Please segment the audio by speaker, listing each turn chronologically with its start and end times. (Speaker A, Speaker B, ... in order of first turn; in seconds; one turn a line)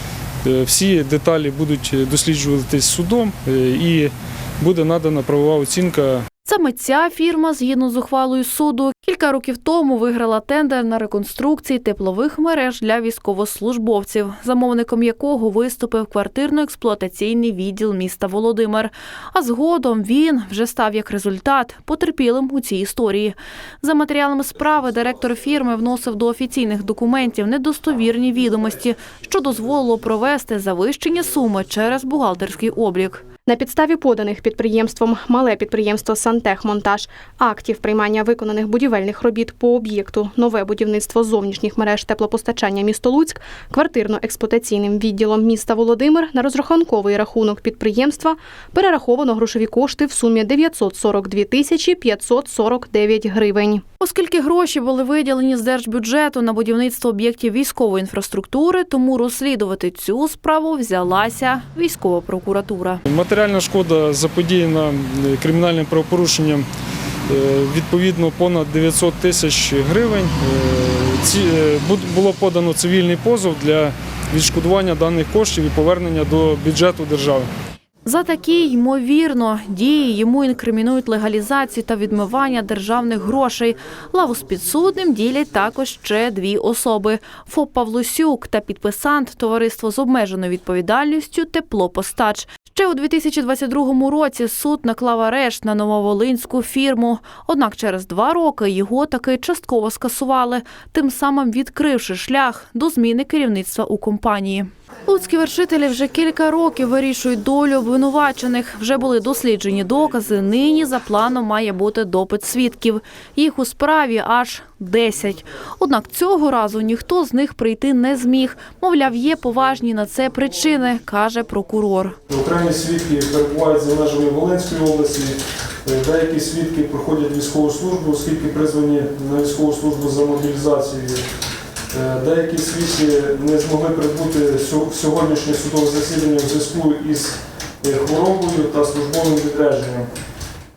Speaker A: 0.4-6.3
Speaker B: 6.4-33.2
Speaker C: 33.5-53.8
Speaker B: 54.0-63.0
Speaker A: 63.0-66.7
Speaker A: 67.3-77.5
Speaker B: 78.0-122.2
Speaker A: 122.3-131.2
Speaker A: 131.9-140.1